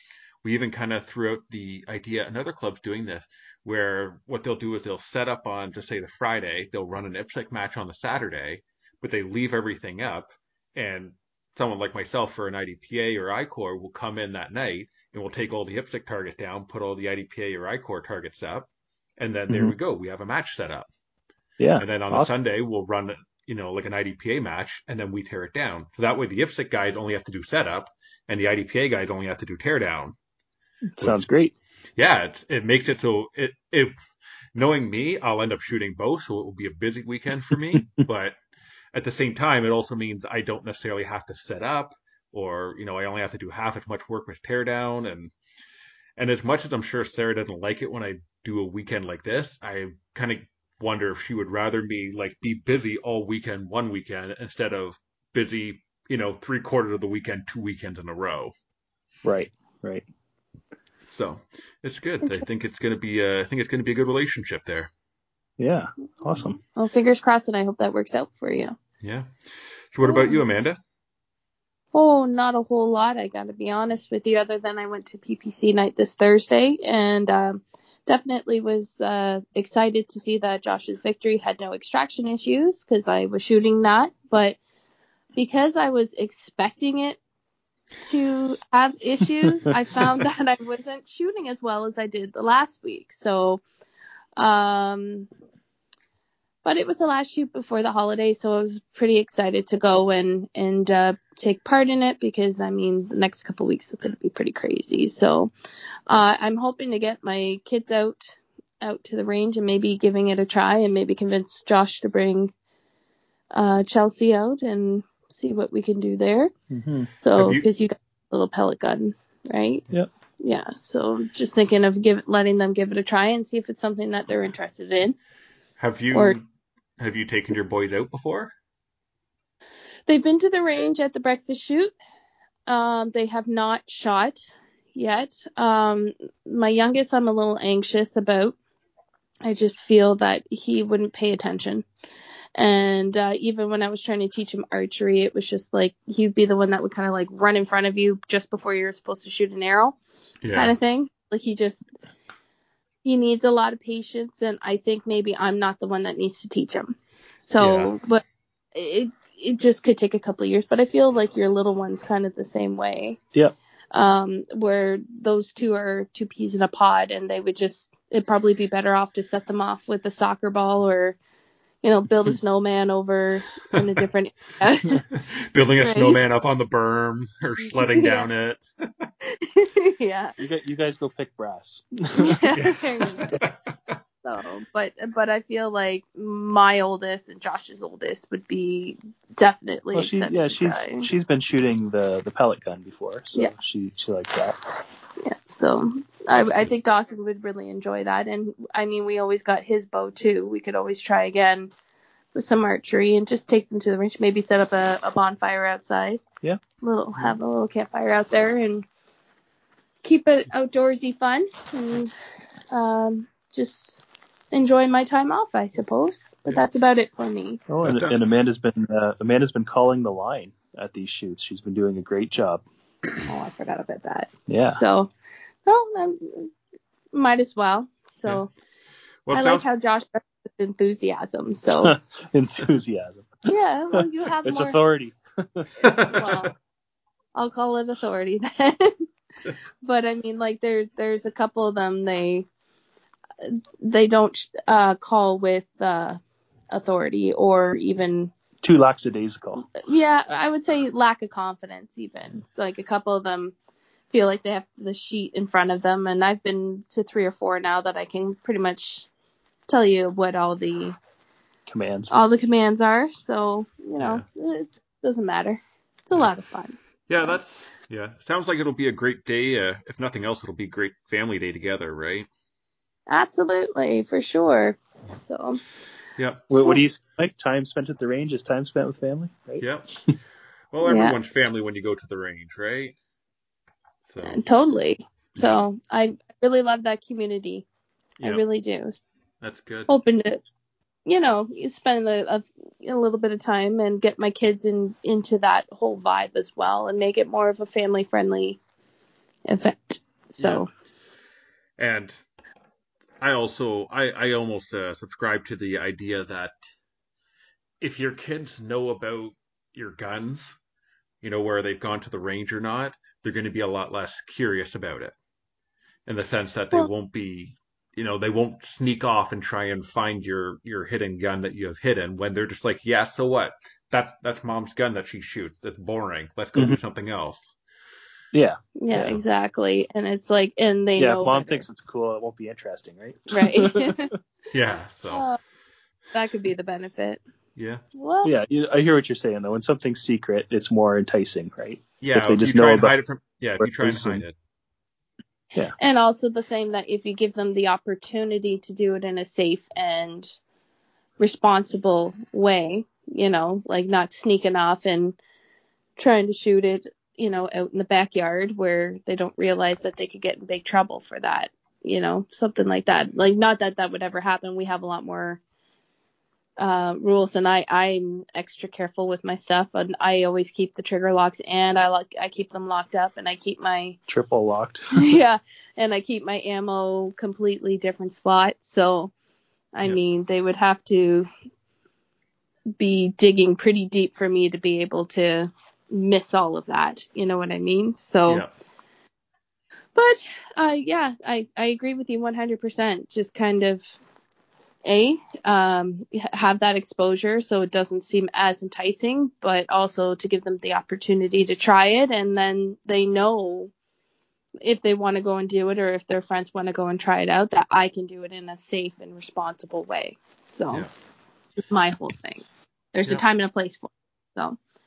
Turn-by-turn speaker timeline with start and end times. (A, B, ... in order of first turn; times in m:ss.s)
0:00.4-0:20.9 A
0:19.5-0:19.8 B
0:21.6-0:22.3 B
0:21.8-0:30.2 A
0:31.0-0:31.6 B
0:31.0-0:31.2 A
0:32.0-0:33.9 A
0:34.6-0:38.4 A
0:37.7-0:38.0 B
0:38.9-0:45.3 A
0:46.2-0:58.5 A
0:59.2-1:00.1 B
1:01.1-1:04.9 A
1:05.6-1:06.6 B
1:06.8-1:08.8 C
1:09.0-1:09.3 A
1:09.9-1:10.8 A
1:10.0-1:10.4 C
1:11.9-1:24.6 C
1:25.4-1:27.2 C
1:28.0-1:33.6 C
1:34.4-1:35.3 C
1:36.6-1:45.5 C
1:46.1-1:52.5 C
1:53.5-1:56.5 C
1:56.7-1:57.1 B
1:57.2-1:59.8 C
1:57.4-1:57.6 A
2:00.4-2:05.2 C
2:05.8-2:06.4 A
2:06.1-2:06.4 C
2:07.0-2:08.5 A
2:10.1-2:12.0 C
2:12.7-2:18.6 C
2:19.4-2:21.8 C
2:22.6-2:30.0 C
2:30.4-2:30.8 A
2:30.5-2:31.9 C
2:33.0-2:38.2 C
2:37.6-2:37.9 A
2:38.8-2:43.2 C
2:43.9-2:51.2 C
2:51.8-2:55.0 C
2:55.1-2:59.1 A
2:55.8-2:56.2 C
2:57.6-2:58.3 C
2:59.2-3:00.3 C
3:00.4-3:02.5 B
3:02.2-3:03.4 C
3:02.5-3:04.0 A
3:04.2-3:11.1 C
3:09.9-3:14.6 B
3:15.2-3:21.7 C
3:22.4-3:26.2 C
3:26.8-3:28.9 C
3:30.0-3:32.2 C
3:32.7-3:37.6 C
3:37.7-3:42.6 B
3:37.8-3:38.2 A
3:43.3-3:45.1 C
3:44.5-3:44.8 B
3:45.6-3:46.5 C
3:47.1-3:48.5 C
3:49.3-3:49.7 A
3:49.3-3:52.0 C
3:51.8-3:53.4 B
3:53.5-3:54.8 C
3:54.0-3:55.7 B
3:55.8-3:56.3 A
3:55.9-3:56.5 C
3:57.4-3:59.0 C
3:59.8-4:02.5 C
4:03.4-4:06.2 C
4:06.7-4:08.3 C
4:08.6-4:09.7 B
4:09.7-4:13.6 C
4:14.1-4:19.1 C
4:19.7-4:21.0 C
4:21.7-4:22.1 B
4:22.1-4:27.4 C
4:24.0-4:24.2 A
4:27.1-4:32.3 A
4:33.1-4:35.6 C
4:36.2-4:36.4 A
4:36.5-4:40.1 B
4:39.6-4:40.0 A
4:40.7-4:43.0 A
4:40.8-4:41.2 C
4:44.1-4:44.4 A
4:44.2-4:47.7 C
4:45.4-4:45.6 A
4:48.2-4:48.4 A
4:48.2-4:49.0 C
4:49.4-4:49.9 A
4:49.9-4:50.4 C
4:51.1-4:58.6 C
4:59.5-5:00.7 C
5:00.4-5:00.6 A
5:01.8-5:02.2 A
5:03.2-5:06.6 A
5:07.8-5:10.6 A
5:11.2-5:15.2 A
5:16.1-5:27.5 A
5:28.3-5:28.6 B
5:28.8-5:31.7 C
5:28.9-5:29.2 A
5:31.0-5:34.1 B
5:33.3-5:34.1 C
5:34.5-5:35.3 A
5:35.1-5:35.4 C
5:36.1-5:37.2 C
5:37.6-5:37.8 A
5:38.0-5:38.3 C
5:38.2-5:42.9 B
5:42.0-5:44.4 A
5:43.6-5:44.2 B
5:45.8-5:50.4 C
5:51.2-5:55.2 C
5:56.0-6:05.4 C
6:06.6-6:14.0 C
6:14.1-6:14.8 B
6:15.0-6:19.1 C
6:19.7-6:21.3 C
6:22.8-6:28.4 C
6:30.0-6:34.0 C
6:34.8-6:43.7 C
6:44.6-6:50.9 C
6:51.6-6:54.6 C